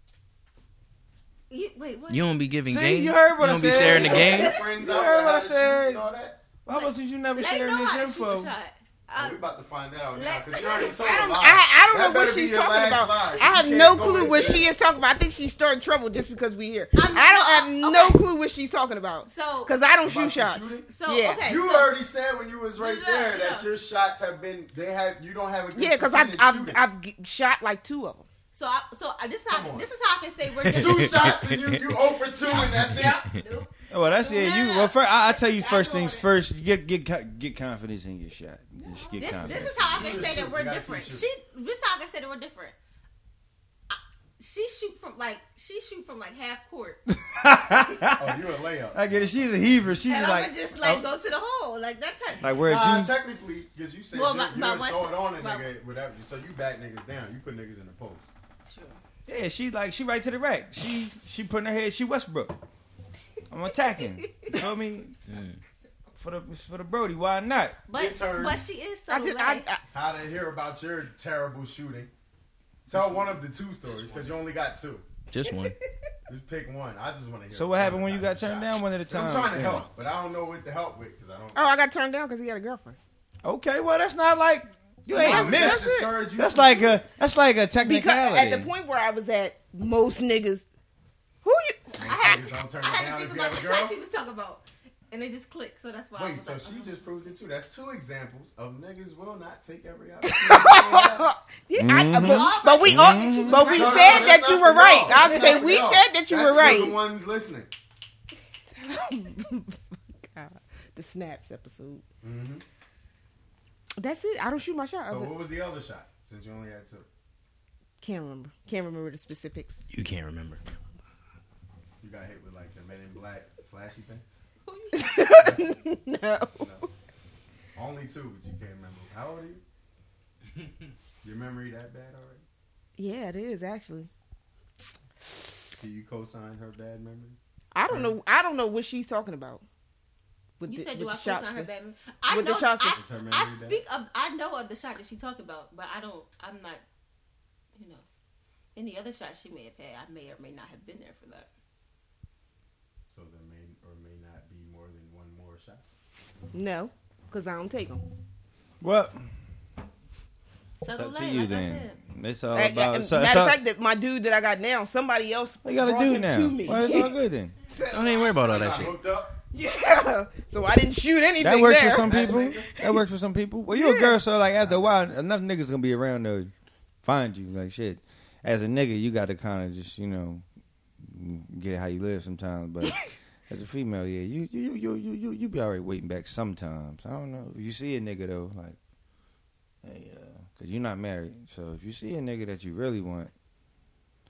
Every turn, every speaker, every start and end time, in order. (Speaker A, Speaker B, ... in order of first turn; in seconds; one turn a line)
Speaker A: 1.5-2.3
Speaker B: 2.1-4.5
Speaker C: 2.7-6.0
Speaker A: 3.8-4.6
Speaker D: 3.9-6.4
Speaker C: 6.7-8.5
Speaker A: 6.7-9.4
Speaker D: 9.2-14.7
Speaker A: 10.1-11.1
Speaker E: 11.0-21.5
Speaker A: 13.5-14.6
Speaker A: 16.9-18.2
Speaker A: 19.3-19.8
Speaker D: 20.0-20.9
Speaker A: 20.9-21.9
Speaker D: 21.4-26.8
Speaker A: 22.8-23.7
Speaker E: 25.7-28.3
Speaker A: 28.5-31.3
Speaker D: 29.5-29.9
Speaker B: 30.6-31.8
Speaker D: 30.7-33.2
Speaker A: 32.3-36.0
Speaker B: 33.0-33.4
Speaker C: 33.9-40.0
Speaker E: 35.5-36.3
Speaker A: 38.9-42.8
Speaker D: 39.3-41.2
Speaker A: 43.9-47.0
Speaker C: 47.3-48.4
Speaker D: 48.1-49.9
Speaker C: 48.9-51.0
Speaker A: 50.1-52.6
Speaker C: 52.4-53.1
Speaker D: 52.6-58.3
Speaker A: 54.1-55.7
Speaker A: 58.7-59.0
Speaker C: 59.3-62.6
Speaker C: 63.5-65.2
Speaker B: 65.3-65.6
Speaker C: 66.2-67.8
Speaker A: 67.9-69.7
Speaker D: 68.0-68.6
Speaker E: 69.1-69.8
Speaker D: 69.9-72.1
Speaker D: 72.9-75.0
Speaker B: 75.3-75.8
Speaker D: 76.3-81.6
Speaker C: 77.5-79.9
Speaker E: 81.5-83.0
Speaker C: 83.4-88.7
Speaker E: 85.1-86.2
Speaker D: 85.2-87.0
Speaker E: 87.8-90.7
Speaker E: 91.4-92.4
Speaker A: 92.0-97.0
Speaker D: 92.0-94.0
Speaker D: 96.2-101.3
Speaker E: 100.2-107.0
Speaker C: 101.8-103.7
Speaker A: 102.1-106.0
Speaker D: 103.6-107.7
Speaker E: 108.8-112.0
Speaker D: 112.2-112.6
Speaker E: 114.0-115.3
Speaker D: 115.1-117.1
Speaker E: 118.0-119.8
Speaker B: 119.9-120.6
Speaker D: 122.0-124.2
Speaker A: 124.7-125.0
Speaker E: 124.9-126.7
Speaker D: 125.4-125.8
Speaker D: 126.6-126.9
Speaker D: 127.8-129.6
Speaker D: 131.2-132.4
Speaker E: 133.0-134.1
Speaker D: 135.7-137.4
Speaker E: 137.7-139.6
Speaker D: 137.9-138.2
Speaker E: 140.6-141.7
Speaker A: 140.7-146.8
Speaker E: 142.3-143.0
Speaker D: 143.0-143.8
Speaker A: 147.8-148.1
Speaker A: 148.8-151.5
Speaker D: 153.1-155.8
Speaker E: 156.5-158.0
Speaker C: 158.8-159.3
Speaker A: 160.8-162.0
Speaker C: 160.9-163.6
Speaker E: 162.5-168.9
Speaker C: 165.6-167.5
Speaker B: 167.9-168.9
Speaker D: 168.4-169.4
Speaker E: 169.5-172.1
Speaker C: 171.4-176.5
Speaker D: 171.9-172.7
Speaker E: 173.7-174.2
Speaker D: 174.6-174.9
Speaker C: 177.0-180.4
Speaker C: 181.0-188.8
Speaker C: 189.8-193.3